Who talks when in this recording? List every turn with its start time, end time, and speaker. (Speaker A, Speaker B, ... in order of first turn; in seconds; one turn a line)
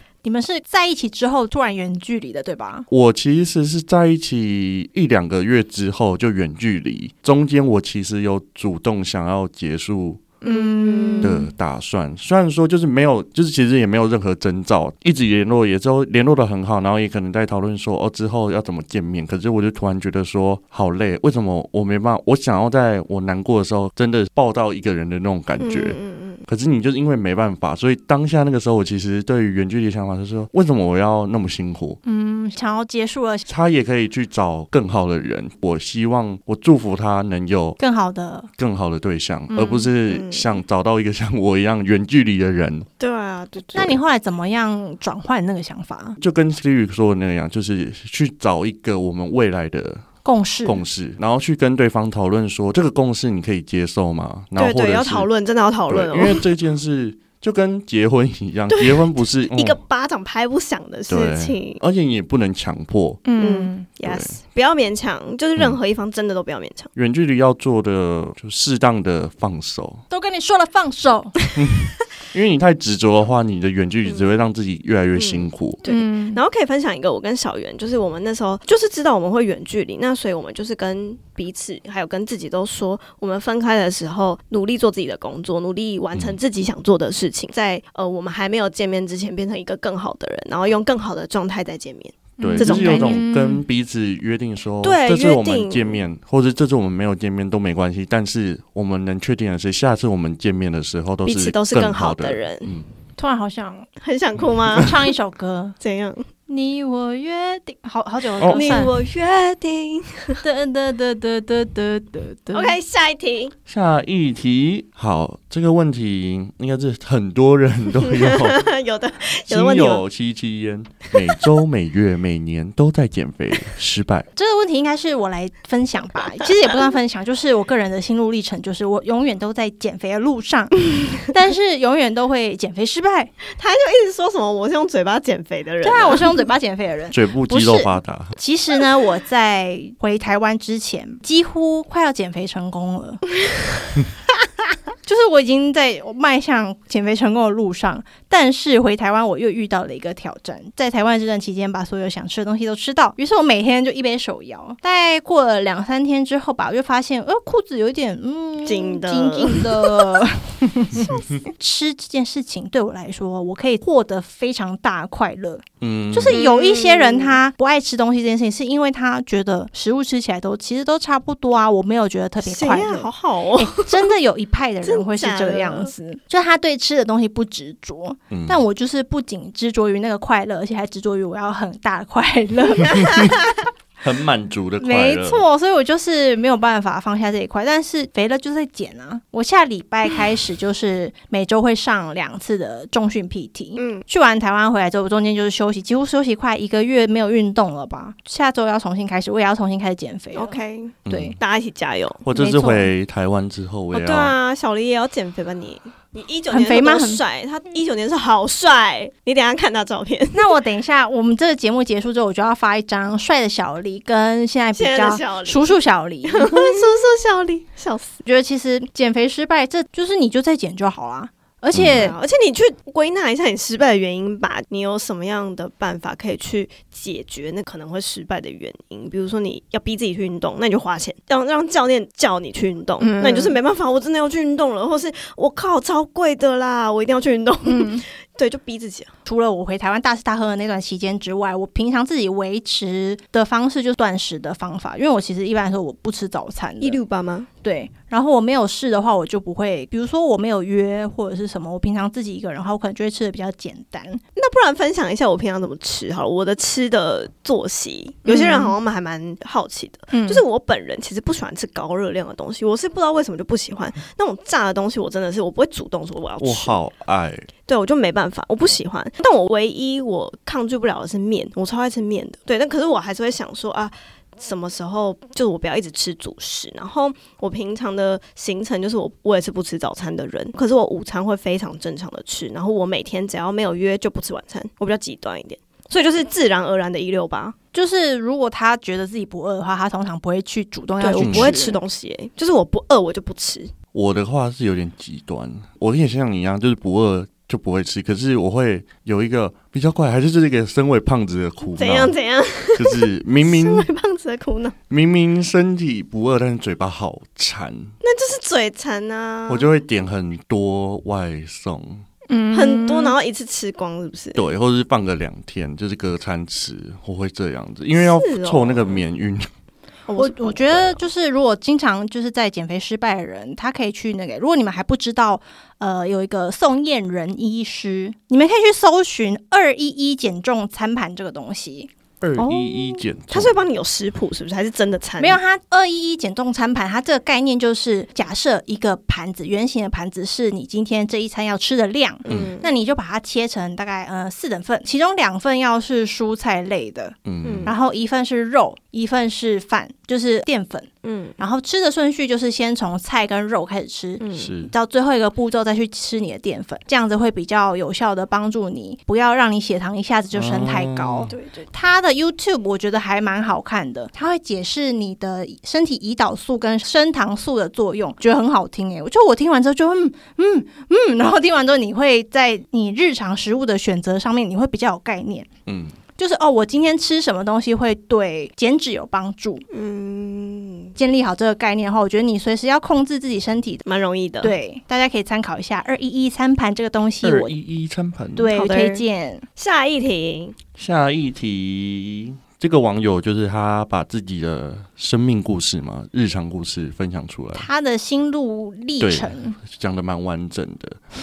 Speaker A: 0.2-2.9
Speaker B: 2.9-10.2
Speaker A: 10.4-11.4
Speaker C: 10.4-11.5
Speaker B: 11.2-32.0
Speaker C: 25.6-26.4
Speaker A: 32.0-33.5
Speaker B: 33.5-37.8
Speaker A: 37.8-38.5
Speaker B: 38.6-42.9
Speaker A: 39.5-39.9
Speaker C: 40.1-40.5
Speaker C: 43.0-44.0
Speaker A: 43.7-46.1
Speaker B: 46.2-50.1
Speaker A: 50.2-50.8
Speaker B: 50.6-55.3
Speaker C: 54.5-56.5
Speaker B: 55.9-59.8
Speaker C: 58.7-61.8
Speaker B: 61.1-63.2
Speaker A: 63.2-63.9
Speaker C: 63.4-66.9
Speaker B: 64.0-64.4
Speaker B: 66.9-70.0
Speaker A: 70.1-71.4
Speaker B: 71.6-75.8
Speaker C: 75.1-93.2
Speaker A: 75.8-76.4
Speaker A: 92.4-93.6
Speaker B: 92.4-102.9
Speaker C: 94.8-96.0
Speaker C: 101.2-102.7
Speaker A: 103.2-103.9
Speaker C: 104.0-105.0
Speaker A: 104.8-105.8
Speaker C: 105.8-106.3
Speaker A: 106.5-108.9
Speaker B: 108.4-108.8
Speaker C: 108.4-110.4
Speaker A: 110.4-112.8
Speaker C: 112.5-113.5
Speaker B: 113.7-118.6
Speaker C: 118.0-120.0
Speaker B: 119.5-124.3
Speaker A: 124.3-133.3
Speaker C: 133.5-136.4
Speaker A: 135.8-143.2
Speaker B: 137.1-138.3
Speaker A: 145.0-183.3
Speaker C: 158.6-160.2
Speaker C: 160.9-161.3
Speaker B: 165.8-166.4
Speaker C: 166.3-167.4
Speaker C: 172.4-174.1
Speaker C: 174.8-175.9
Speaker B: 178.3-178.6
Speaker C: 182.9-183.3
Speaker B: 184.0-185.4
Speaker A: 184.8-201.3
Speaker C: 193.7-194.0
Speaker C: 200.3-202.2
Speaker B: 201.1-201.3
Speaker B: 202.2-204.3
Speaker A: 202.3-202.9
Speaker C: 203.9-210.5
Speaker A: 206.5-207.2
Speaker A: 210.3-216.8
Speaker C: 214.7-218.2
Speaker A: 218.2-222.2
Speaker B: 221.7-222.1
Speaker C: 221.9-239.1
Speaker A: 233.0-233.6
Speaker A: 237.6-238.0
Speaker A: 239.2-247.0
Speaker C: 246.8-247.5
Speaker A: 247.6-254.2
Speaker C: 254.3-266.8
Speaker A: 258.2-258.8
Speaker A: 260.1-260.4
Speaker B: 266.4-267.5
Speaker C: 267.7-287.5
Speaker A: 287.7-291.8
Speaker C: 291.0-293.7
Speaker B: 291.2-291.6
Speaker B: 293.9-302.1
Speaker C: 301.7-304.8
Speaker B: 302.7-303.9
Speaker B: 304.9-307.9
Speaker C: 308.0-309.7
Speaker B: 309.5-312.0
Speaker A: 312.3-313.1
Speaker C: 312.5-314.4
Speaker B: 314.3-319.5
Speaker C: 317.9-319.0
Speaker C: 320.1-321.0
Speaker A: 320.1-331.9
Speaker B: 332.2-333.5
Speaker C: 332.4-335.4
Speaker A: 335.2-375.5
Speaker C: 342.2-342.7
Speaker B: 347.2-347.7
Speaker C: 347.4-347.7
Speaker C: 351.0-351.4
Speaker C: 354.2-354.5
Speaker B: 354.4-354.7
Speaker B: 360.3-361.3
Speaker C: 361.3-361.7
Speaker B: 375.7-375.9
Speaker A: 376.2-379.6
Speaker C: 379.7-380.9
Speaker A: 380.9-383.8
Speaker C: 383.9-384.5
Speaker A: 384.4-387.5
Speaker B: 387.2-388.5
Speaker A: 388.4-389.4
Speaker C: 388.5-389.0
Speaker C: 389.6-390.6
Speaker B: 390.8-397.7
Speaker A: 397.5-399.6
Speaker B: 399.0-401.0